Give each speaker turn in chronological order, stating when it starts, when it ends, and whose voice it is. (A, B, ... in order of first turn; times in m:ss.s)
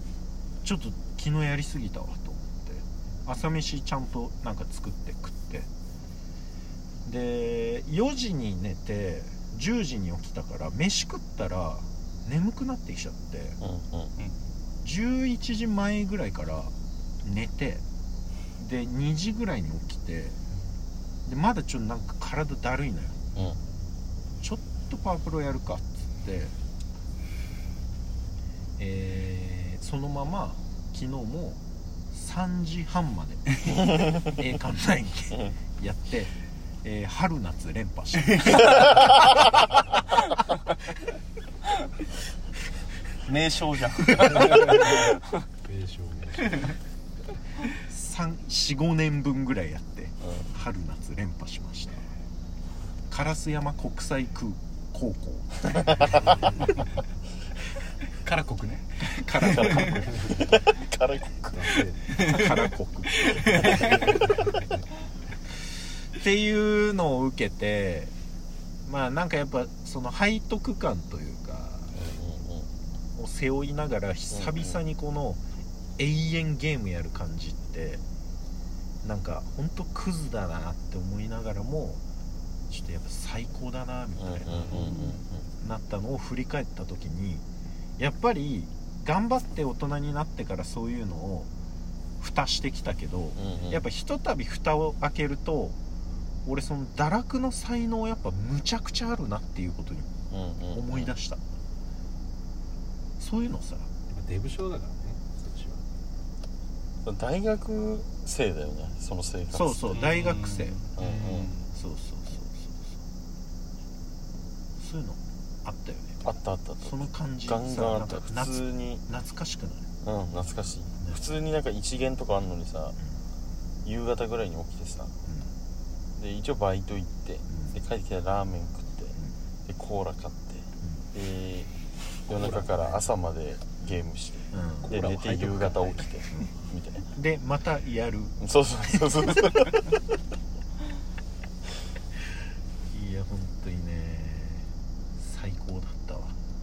0:00.6-0:05.7 A
0:07.0-0:13.6 A
0:13.6-0:14.1 B
0:14.8-0:17.8 A
0:18.6-0:20.4 A
0:21.2-0:23.2 A
0:24.4-0:26.5 A
0:28.8-0:31.6 A
0:32.1-0:39.1 A
0:43.2-0:45.4 C
0:45.6-0:46.7 D
0:47.9-0:52.1 A
0:53.1-0:56.2 A
0:58.2-1:00.0 E
0:59.0-1:00.4 A
0:59.4-1:01.7 B
1:01.5-1:02.0 D
1:02.1-1:02.6 E
1:02.1-1:04.2 A
1:03.2-1:04.3 E
1:06.1-1:08.1 A
1:08.8-1:12.0 A
1:11.9-1:12.7 B
1:13.2-1:15.4 A
1:14.3-1:14.8 B
1:16.0-1:18.0 A
1:19.0-1:22.0 A
1:22.7-1:27.4 A
1:24.2-1:25.4 B
1:28.0-1:31.5 A
1:32.2-1:35.8 A
1:33.4-1:33.8 B
1:36.5-1:40.1 A
1:40.3-1:41.1 B
1:40.7-1:41.4 A
1:43.2-1:43.9 A
1:44.1-1:45.8 D
1:47.0-1:50.2 B
1:49.5-1:53.0 A
1:49.9-1:51.5 C
1:51.0-1:51.5 B
1:54.8-1:56.3 A
1:56.2-1:59.0 B
1:56.8-1:59.9 A
2:00.0-2:03.0 B
2:03.8-2:05.1 B
2:05.3-2:05.5 A
2:06.2-2:09.2 B
2:09.7-2:11.7 B
2:12.3-2:17.0 B
2:12.4-2:13.0 D
2:14.5-2:16.5 A
2:17.1-2:19.6 A
2:18.4-2:19.9 B
2:22.9-2:26.4 A